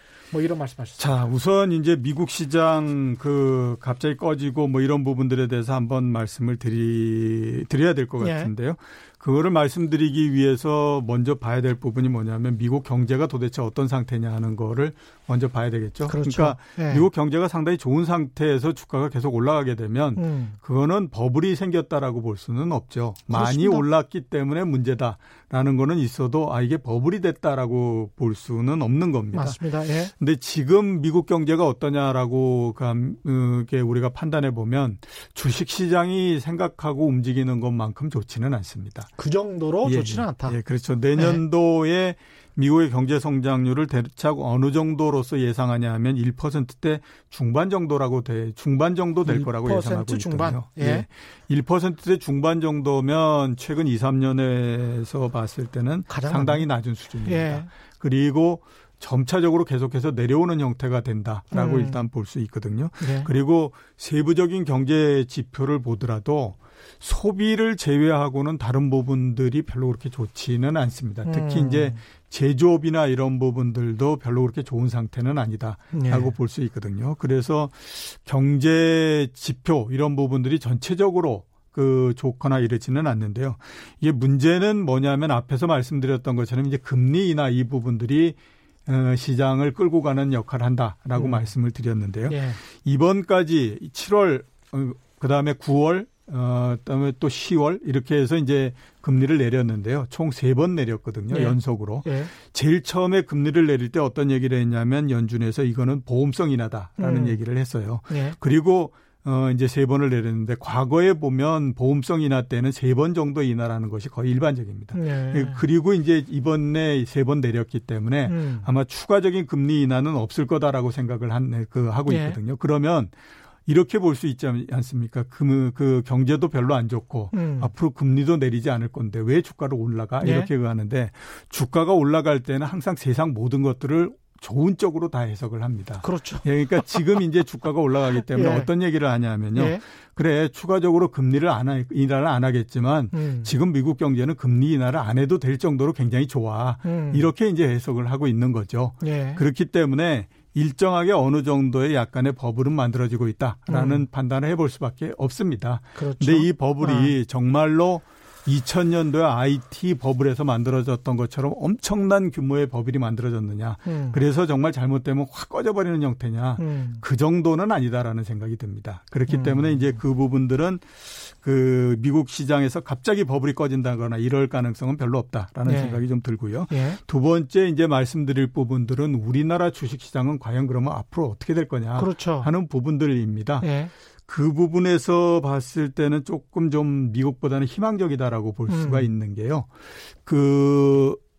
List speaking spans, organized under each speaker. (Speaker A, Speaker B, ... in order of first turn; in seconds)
Speaker A: 0.3-1.0, 8.2-8.5, 16.1-17.0, 20.1-20.6, 23.3-23.8, 29.3-30.1, 39.2-40.6, 49.2-51.0, 56.1-56.6, 57.2-57.7, 61.5-62.0, 63.0-63.3, 71.2-72.0, 75.9-76.3, 91.2-91.5, 92.3-92.6, 101.3-102.3, 107.0-107.4, 108.1-108.3, 114.9-115.6, 118.2-118.7, 122.1-122.4, 127.3-127.7, 130.2-130.5, 136.0-137.0, 138.2-138.7, 139.5-139.8, 143.1-143.5, 146.8-147.3, 149.0-149.4, 153.7-154.0, 155.9-157.1, 163.8-164.2, 166.6-167.0, 169.3-169.9, 175.6-176.0, 176.7-177.0, 181.9-182.5, 183.6-183.9, 188.7-189.1
Speaker B: 1.0-29.6, 30.1-39.1, 39.8-123.1, 123.7-183.7, 184.3-189.7, 190.2-191.2